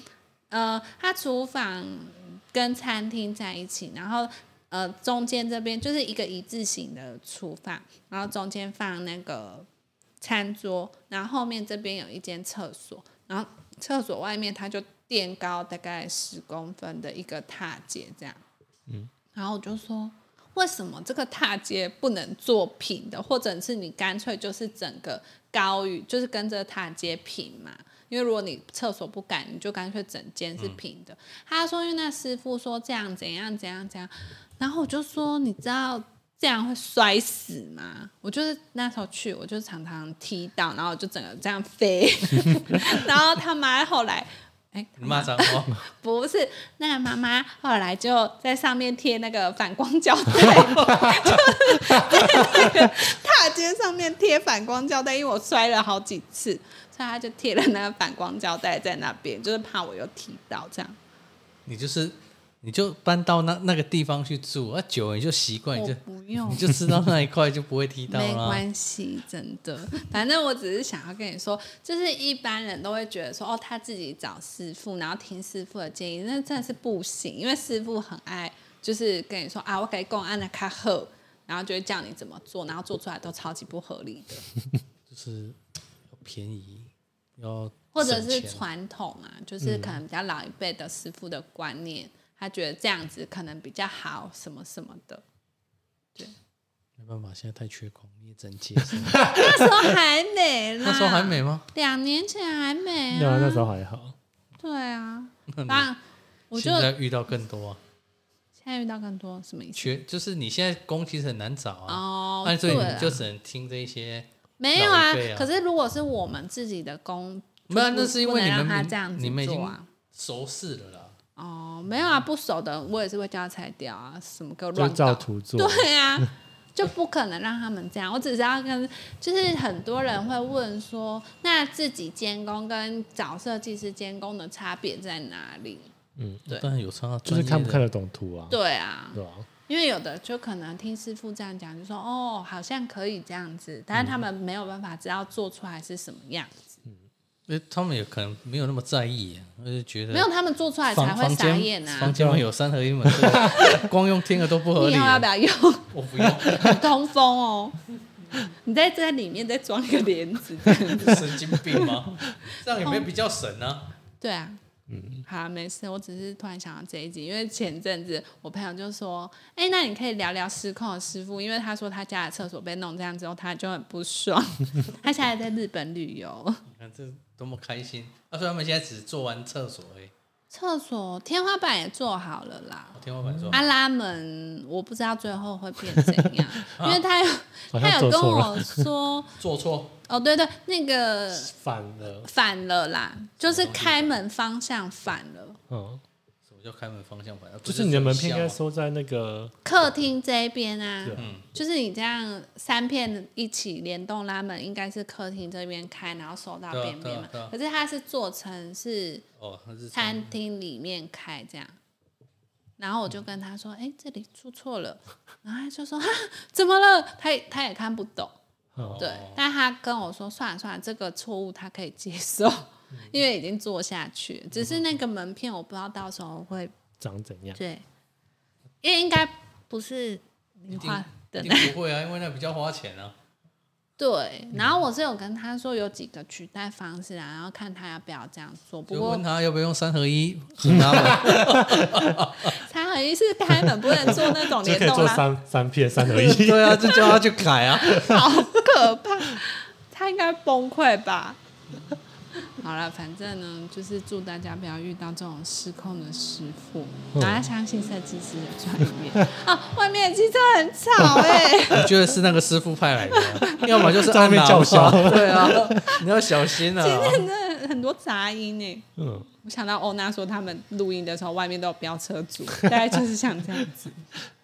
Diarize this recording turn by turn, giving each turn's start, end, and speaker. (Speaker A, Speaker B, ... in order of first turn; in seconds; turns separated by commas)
Speaker A: 0.5-9.7, Speaker A: 10.2-18.4, Speaker A: 19.3-61.0, Speaker B: 45.0-45.8, Speaker B: 61.6-68.6, Speaker A: 65.8-66.7, Speaker A: 68.1-84.5, Speaker B: 85.1-85.6, Speaker B: 86.1-88.6, Speaker A: 87.9-95.2, Speaker C: 89.6-90.0, Speaker B: 97.0-99.3, Speaker C: 99.0-99.5, Speaker A: 99.2-103.7, Speaker B: 100.8-101.7, Speaker C: 103.1-104.2, Speaker A: 104.6-106.0, Speaker B: 105.5-105.9, Speaker A: 106.5-106.9, Speaker B: 106.5-107.8, Speaker A: 108.6-109.9, Speaker B: 109.8-115.5, Speaker A: 111.9-113.2, Speaker A: 114.6-119.9, Speaker B: 117.7-121.2, Speaker A: 121.3-135.9, Speaker C: 124.7-126.3, Speaker C: 136.2-136.4, Speaker B: 136.5-137.8, Speaker C: 137.2-138.6, Speaker A: 138.5-146.8, Speaker C: 139.1-139.5, Speaker B: 147.5-150.3, Speaker A: 150.1-152.2, Speaker B: 150.9-155.3, Speaker C: 152.1-152.4, Speaker C: 153.0-153.7, Speaker A: 153.4-153.9, Speaker A: 154.8-155.9, Speaker B: 155.9-156.8, Speaker C: 156.4-156.8, Speaker A: 156.5-157.8, Speaker A: 158.4-161.9, Speaker B: 160.9-163.9, Speaker A: 162.7-163.1, Speaker A: 164.2-164.6, Speaker C: 164.9-165.2, Speaker A: 165.2-176.6, Speaker B: 176.7-180.1, Speaker A: 180.5-183.0, Speaker B: 182.9-183.6, Speaker C: 183.3-183.6, Speaker A: 183.5-189.3, Speaker C: 185.9-186.3, Speaker B: 186.7-187.0, Speaker C: 187.7-188.9, Speaker B: 189.4-190.0, Speaker A: 190.1-191.5, Speaker C: 191.4-192.3, Speaker A: 192.1-195.6, Speaker B: 193.4-194.1, Speaker C: 195.7-196.0, Speaker B: 196.5-198.6, Speaker C: 197.6-199.5, Speaker A: 199.6-209.2, Speaker C: 201.0-201.3, Speaker B: 201.2-201.4, Speaker B: 206.7-207.5, Speaker B: 209.4-210.3, Speaker A: 209.9-211.8, Speaker A: 212.8-218.4, Speaker C: 218.7-219.0, Speaker B: 218.8-219.4, Speaker A: 219.0-226.7, Speaker C: 227.0-227.6, Speaker A: 227.6-227.8, Speaker A: 228.8-231.7, Speaker B: 230.7-233.1, Speaker A: 234.0-239.2, Speaker B: 238.9-242.5, Speaker C: 240.7-242.1, Speaker A: 242.4-245.2, Speaker C: 243.8-247.2, Speaker B: 246.1-248.0, Speaker A: 246.8-247.2, Speaker A: 247.8-251.4, Speaker C: 247.9-248.4, Speaker A: 252.4-261.9, Speaker C: 257.1-257.4, Speaker B: 261.7-267.3, Speaker A: 263.1-263.9, Speaker C: 263.8-265.9, Speaker A: 266.6-268.9, Speaker C: 269.0-269.3, Speaker A: 269.4-274.0